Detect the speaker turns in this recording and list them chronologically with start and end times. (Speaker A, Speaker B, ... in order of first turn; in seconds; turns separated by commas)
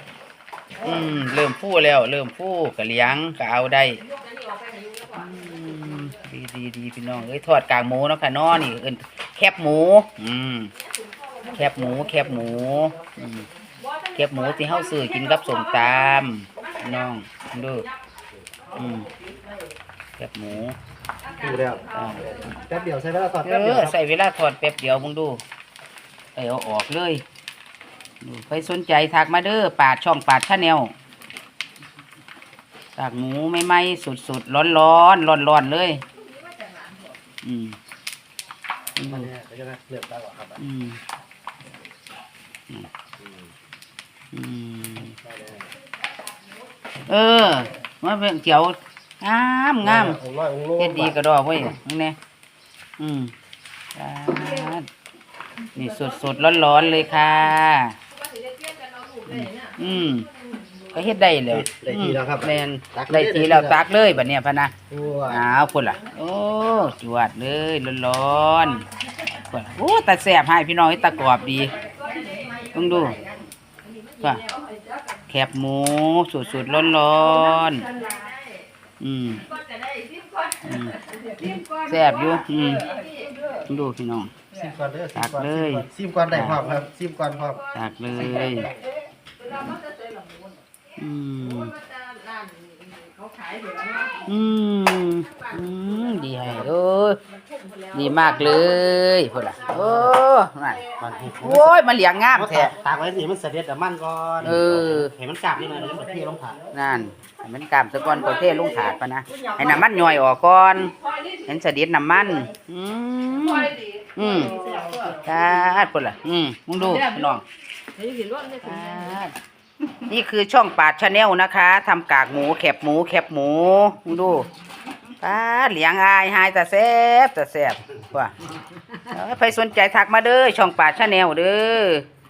Speaker A: 0.8-4.0, Speaker B: 4.0-6.1, Speaker A: 5.1-10.7, Speaker B: 10.8-12.1, Speaker A: 11.5-13.5, Speaker B: 13.7-17.1, Speaker A: 14.2-17.9, Speaker A: 18.8-19.1, Speaker A: 20.2-20.8, Speaker B: 21.2-22.8, Speaker C: 21.4-24.0, Speaker A: 21.9-22.4, Speaker A: 23.4-25.4, Speaker A: 26.4-27.2, Speaker A: 28.2-30.9, Speaker A: 33.0-36.0, Speaker B: 36.1-37.2, Speaker A: 37.4-37.8, Speaker A: 39.0-39.3, Speaker C: 39.0-40.6, Speaker A: 40.6-41.0, Speaker C: 43.2-43.5, Speaker A: 44.3-45.2, Speaker C: 45.2-45.7, Speaker A: 47.1-50.2, Speaker C: 49.8-51.2, Speaker A: 50.8-52.2, Speaker A: 53.0-53.3, Speaker A: 54.0-54.9, Speaker A: 55.8-58.0, Speaker B: 55.8-57.4, Speaker B: 58.1-61.4, Speaker A: 59.3-60.3, Speaker A: 60.9-64.7, Speaker C: 61.5-63.9, Speaker C: 64.9-65.5, Speaker A: 65.3-68.8, Speaker A: 69.4-71.8, Speaker B: 71.1-75.2, Speaker A: 72.7-73.2, Speaker A: 75.3-77.9, Speaker B: 76.4-78.7, Speaker A: 79.0-79.4, Speaker B: 79.4-83.7, Speaker A: 80.7-81.0, Speaker A: 81.8-82.9, Speaker A: 83.7-84.3, Speaker C: 84.5-87.6, Speaker A: 85.2-86.7, Speaker A: 87.7-88.7, Speaker B: 88.1-90.6, Speaker A: 91.0-91.7, Speaker B: 91.4-94.4, Speaker A: 94.3-97.2, Speaker B: 95.0-96.7, Speaker B: 97.2-100.1, Speaker A: 97.9-100.8, Speaker C: 101.0-101.8, Speaker A: 101.4-102.8, Speaker C: 102.3-106.7, Speaker A: 104.4-105.1, Speaker A: 106.7-114.5, Speaker B: 111.0-111.3, Speaker B: 113.5-115.2, Speaker A: 115.2-117.4, Speaker B: 116.8-117.4, Speaker B: 118.0-119.2, Speaker A: 118.6-119.3, Speaker A: 120.0-124.5, Speaker A: 125.2-128.5, Speaker A: 129.1-132.1